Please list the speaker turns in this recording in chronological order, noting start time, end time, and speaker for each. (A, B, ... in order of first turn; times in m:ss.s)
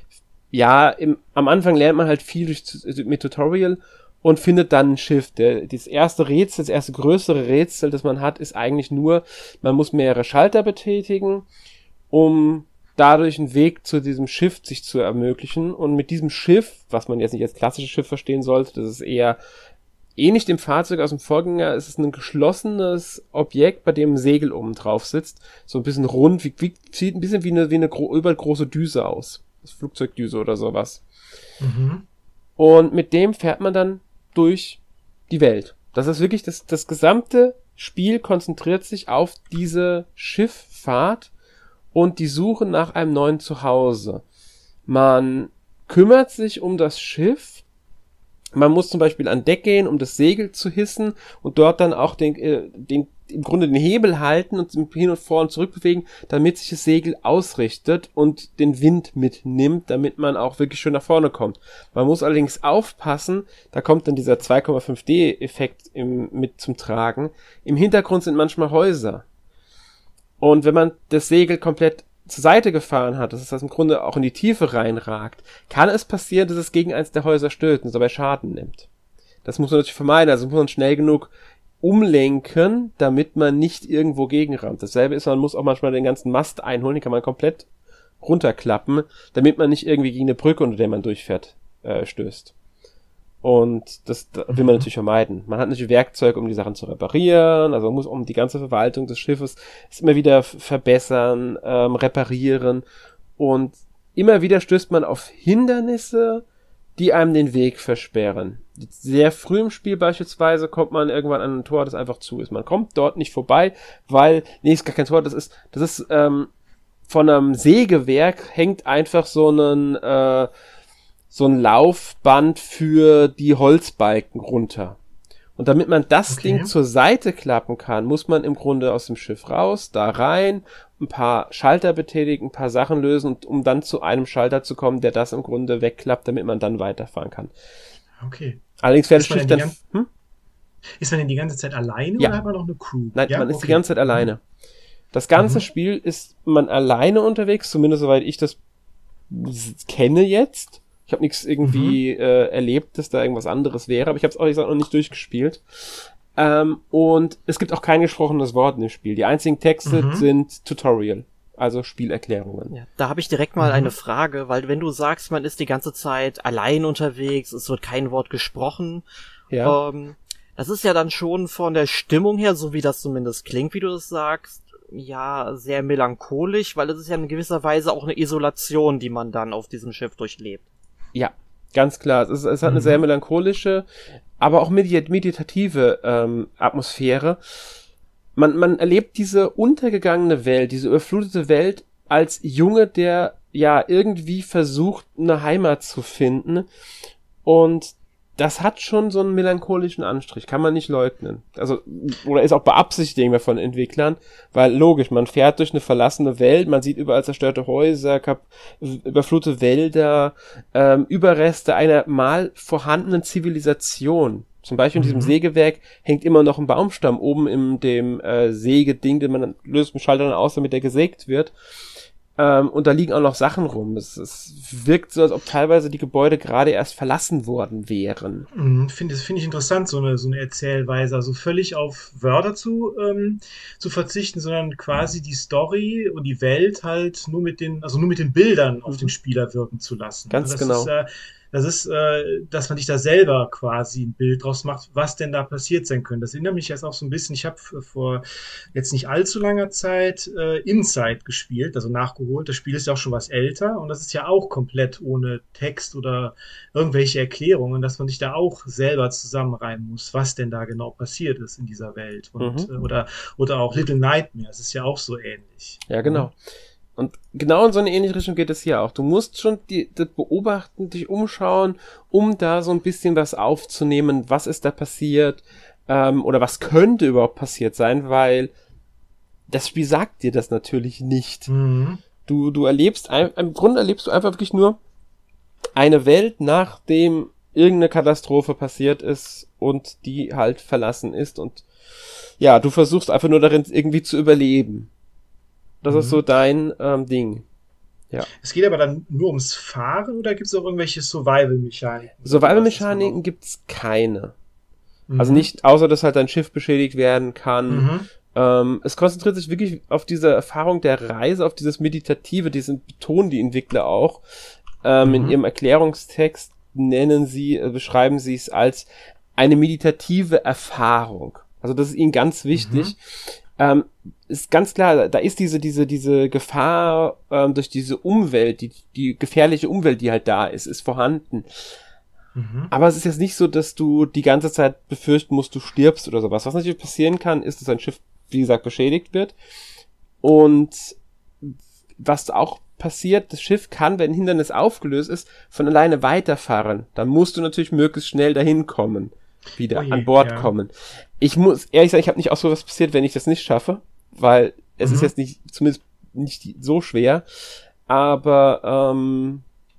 0:00.5-0:11.4 A
0:12.1-0:19.4 A
0:20.2-0:31.0 A
0:31.6-0:32.0 B
0:32.6-0:34.8 A
0:35.3-0:41.3 A
0:41.9-0:44.2 A
0:44.9-0:47.6 A
0:48.5-1:09.2 A
1:10.4-1:18.9 A
1:19.4-1:21.3 A
1:21.8-1:27.6 A
1:28.2-1:32.5 A
1:33.4-1:42.8 A
1:34.5-1:34.9 B
1:43.4-1:46.4 A
1:47.0-1:56.5 A
1:57.1-2:00.5 A
2:01.3-2:05.0 A
2:05.6-2:17.5 A
2:06.3-2:06.7 B
2:18.2-2:18.6 B
2:18.8-2:20.1 A
2:19.1-2:19.8 B
2:21.0-2:24.3 B
2:23.1-2:24.4 A
2:25.1-2:28.6 A
2:25.4-2:25.6 B
2:29.3-2:42.7 A
2:31.6-2:32.0 B
2:39.8-2:40.3 B
2:42.7-2:49.0 C
2:43.6-2:43.9 B
2:49.5-2:49.8 A
2:49.6-3:00.6 C
3:01.1-3:03.8 A
3:02.6-3:03.0 B
3:04.4-3:07.4 A
3:08.4-3:16.6 A
3:17.4-3:41.5 A
3:34.9-3:35.4 B
3:42.4-3:48.5 A
3:48.5-4:26.3 B
3:58.9-3:59.1 A
4:00.3-4:00.9 A
4:22.4-4:22.7 A
4:25.9-4:26.4 A
4:27.0-4:38.5 A
4:39.5-4:41.5 A
4:41.5-4:42.0 B
4:42.2-4:44.8 A
4:45.8-4:51.6 A
4:52.4-4:54.9 A
4:55.8-4:57.4 A
4:55.9-4:56.2 B
4:58.4-5:03.2 B
5:02.2-5:04.3 A
5:05.1-5:05.5 B
5:05.2-5:14.2 A
5:07.7-5:08.1 B
5:14.8-5:31.7 A
5:15.0-5:15.4 B
5:22.5-5:22.9 B
5:32.3-5:32.7 B
5:32.7-5:39.3 A
5:40.2-5:57.2 A
5:49.7-5:50.5 B
5:54.8-5:55.1 B
5:57.9-5:59.4 A